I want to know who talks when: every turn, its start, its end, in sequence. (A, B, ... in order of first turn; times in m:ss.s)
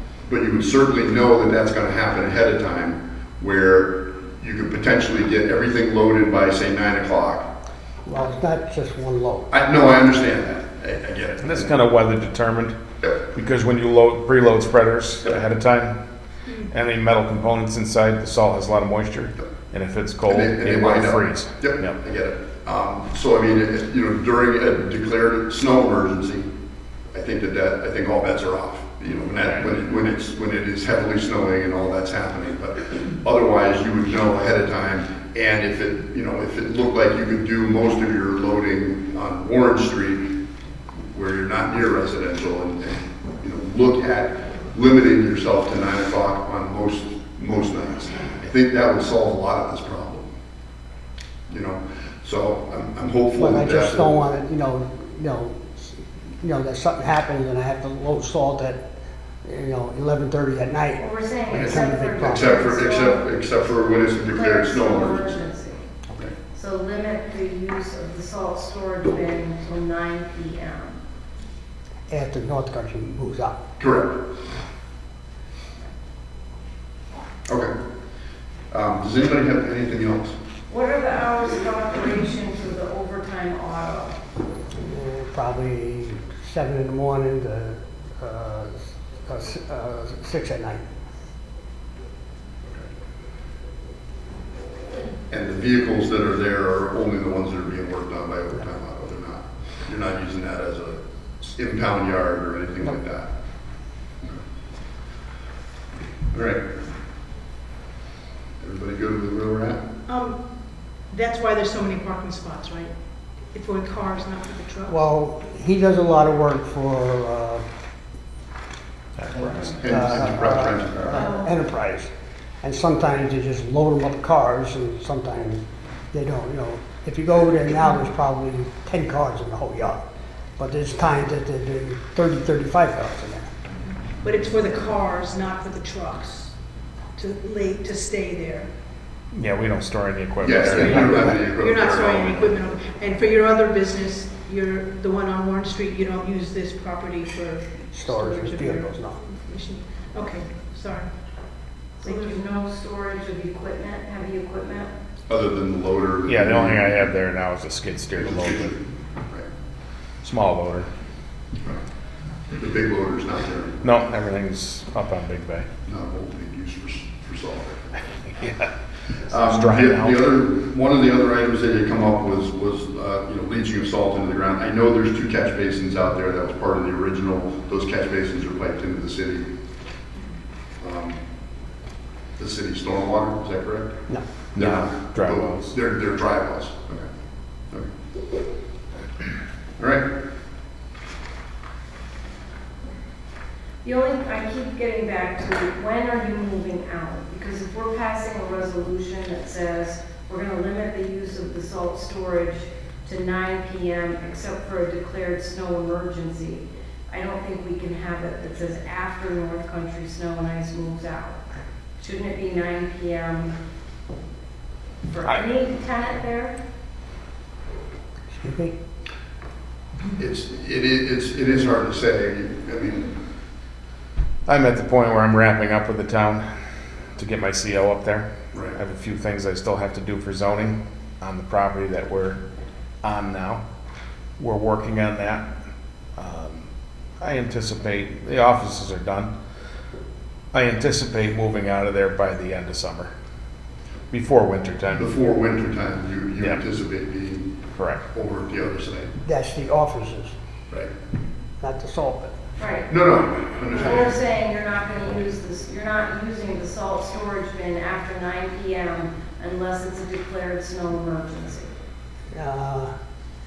0:00.3-0:07.5 A
0:08.0-0:09.5 B
0:09.5-0:11.7 A
0:11.4-0:12.8 C
0:13.3-0:16.0 C
0:16.7-0:22.0 C
0:20.3-0:26.5 A
0:27.1-0:40.3 A
0:41.1-0:50.3 A
0:51.5-0:54.3 A
0:53.4-0:58.9 B
0:59.4-1:02.6 B
1:01.0-1:03.3 D
1:01.5-1:05.4 A
1:04.2-1:05.9 D
1:06.5-1:11.0 D
1:12.1-1:13.6 B
1:13.8-1:14.3 A
1:17.5-1:17.7 A
1:18.7-1:20.4 A
1:20.7-1:24.2 D
1:24.8-1:30.8 B
1:35.3-1:43.4 A
1:46.3-1:46.6 A
1:48.6-1:49.8 A
1:50.1-1:50.5 E
1:51.1-1:55.0 E
1:54.9-1:57.6 B
1:59.2-1:59.8 C
1:59.8-2:01.3 A
1:59.8-2:02.1 B
2:01.1-2:01.6 E
2:02.6-2:10.0 B
2:10.6-2:13.5 B
2:14.1-2:16.6 E
2:17.2-2:18.7 E
2:19.3-2:21.2 C
2:20.4-2:31.1 E
2:20.4-2:22.5 A
2:27.9-2:29.2 B
2:32.0-2:34.9 D
2:32.0-2:32.4 E
2:35.3-2:37.1 A
2:36.3-2:38.8 C
2:38.2-2:39.5 A
2:40.2-2:40.9 C
2:42.6-2:43.8 A
2:43.8-2:45.7 C
2:45.9-2:48.0 A
2:48.2-2:48.7 C
2:49.2-2:59.5 A
2:49.3-2:50.2 C
3:00.8-3:01.2 A
3:02.4-3:04.0 A
3:04.6-3:05.7 C
3:04.6-3:07.1 A
3:09.8-3:10.1 A
3:13.8-3:31.4 D
3:32.0-3:33.5 D
3:35.1-3:36.6 D
3:38.3-3:38.8 B
3:40.2-3:43.2 A
3:44.5-3:46.5 C
3:47.2-3:52.4 C
3:53.0-3:53.6 C
3:54.4-3:55.5 C
3:56.2-3:56.7 C
3:57.2-3:59.3 C
4:00.5-4:03.1 C
4:04.1-4:05.1 C
4:04.9-4:07.6 A
4:07.8-4:08.0 C
4:08.1-4:09.1 A
4:09.2-4:10.3 B
4:11.6-4:12.4 B
4:12.6-4:12.9 D
4:12.9-4:14.2 A
4:13.7-4:21.7 D
4:22.3-4:22.9 B